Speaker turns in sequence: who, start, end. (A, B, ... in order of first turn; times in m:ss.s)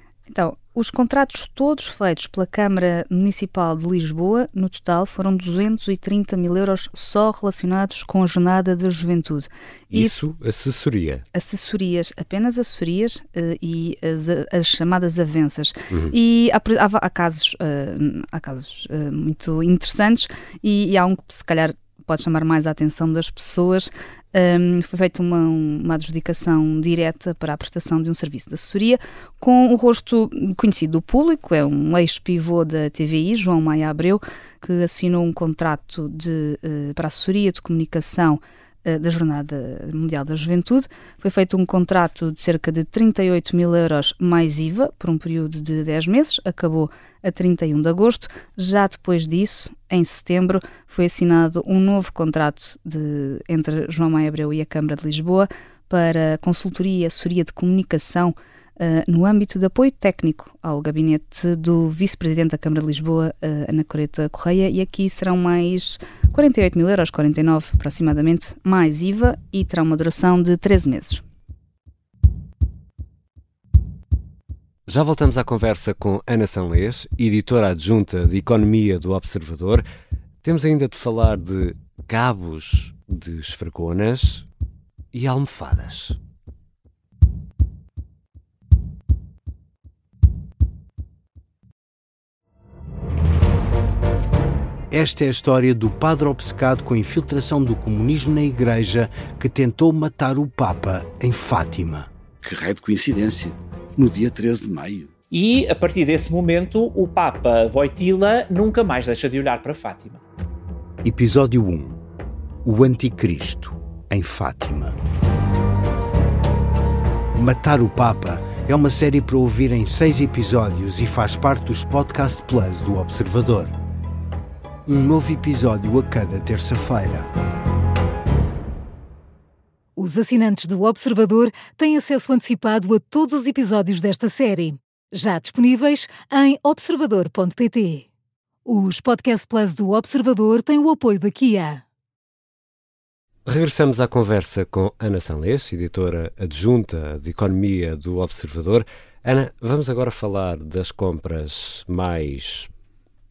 0:00.3-0:10.1 A
0:09.9-0:11.2 B
0:11.3-1:11.2 A
1:14.9-1:19.8 B
1:20.4-1:24.5 B
1:25.1-1:26.2 B
1:34.9-1:42.1 C
1:42.5-1:45.0 D
1:45.3-1:50.2 E
1:51.0-1:52.0 C
1:52.6-1:55.0 C
1:57.4-2:03.8 C
2:04.9-2:07.3 C
2:10.0-2:18.0 F
2:18.7-2:21.8 F
2:23.5-2:32.7 B